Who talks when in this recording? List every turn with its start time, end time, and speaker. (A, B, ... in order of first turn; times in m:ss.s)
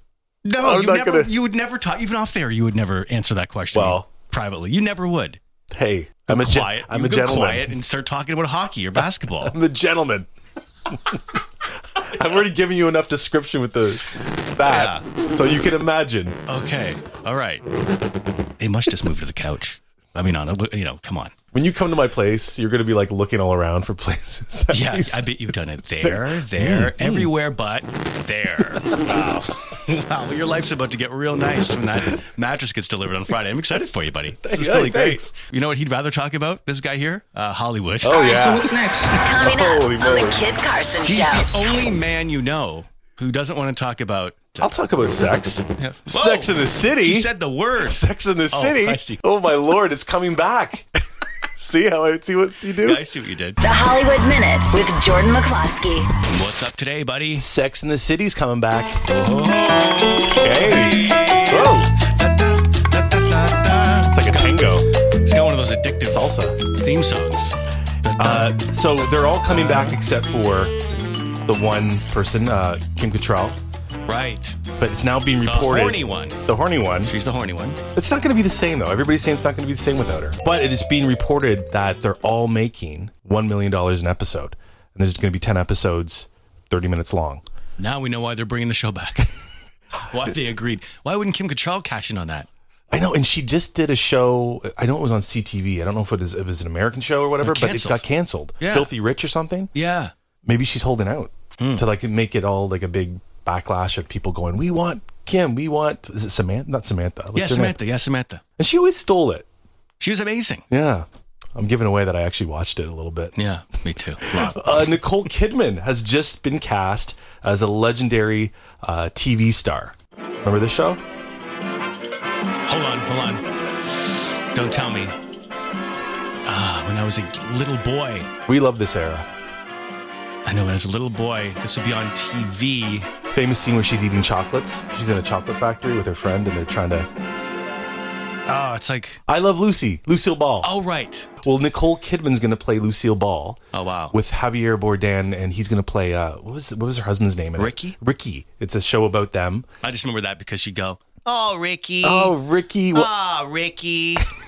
0:00.4-0:05.4 A
0:00.6-0:01.3 B
0:03.7-0:04.1 B
0:05.7-0:07.8 B
0:06.3-0:09.6 A
0:09.4-0:10.3 B
0:10.9-0:11.2 B
0:12.0-0:16.4 B
0:14.7-0:15.0 A
0:16.5-0:17.6 A
0:18.6-0:21.4 A
0:21.5-0:25.3 B
0:24.7-0:38.3 A
0:26.0-0:27.3 B
0:34.4-0:35.3 B
0:38.0-0:40.4 B
0:38.1-0:41.5 C
0:41.0-0:44.7 A
0:44.6-0:47.3 B
0:45.8-0:49.2 A
0:47.8-0:50.9 B
0:51.6-0:53.0 B
0:52.8-0:53.6 A
0:53.6-0:56.1 C
0:56.3-0:57.5 A
0:57.3-0:59.0 B
0:59.1-1:04.7 A
1:00.3-1:01.9 B
1:04.1-1:04.9 B
1:05.2-1:08.6 A
1:06.0-1:06.6 B
1:08.2-1:10.8 B
1:11.5-1:13.6 B
1:14.1-1:14.6 A
1:14.8-1:17.1 B
1:15.4-1:16.4 A
1:17.0-1:17.8 A
1:18.0-1:27.4 B
1:27.8-1:29.3 A
1:30.0-1:32.5 A
1:32.9-1:39.7 B
1:37.4-1:38.0 A
1:38.6-1:38.9 A
1:39.8-1:40.1 A
1:40.4-1:47.8 B
1:41.6-1:41.9 A
1:47.4-1:48.4 A
1:48.6-1:49.5 B
1:50.0-1:50.6 A
1:50.7-1:53.4 B
1:53.4-1:54.8 A
1:54.2-2:01.0 B
2:02.7-2:03.4 A
2:04.5-2:05.1 A
2:06.5-2:08.3 A
2:08.5-2:09.3 B
2:10.4-2:13.1 A
2:13.3-2:17.1 B
2:18.5-2:19.2 A
2:19.3-2:20.7 B
2:20.6-2:21.4 A
2:21.4-2:29.7 B
2:23.7-2:24.2 A
2:27.6-2:28.0 A
2:29.8-2:32.4 A
2:32.0-2:33.1 B
2:32.9-2:34.3 A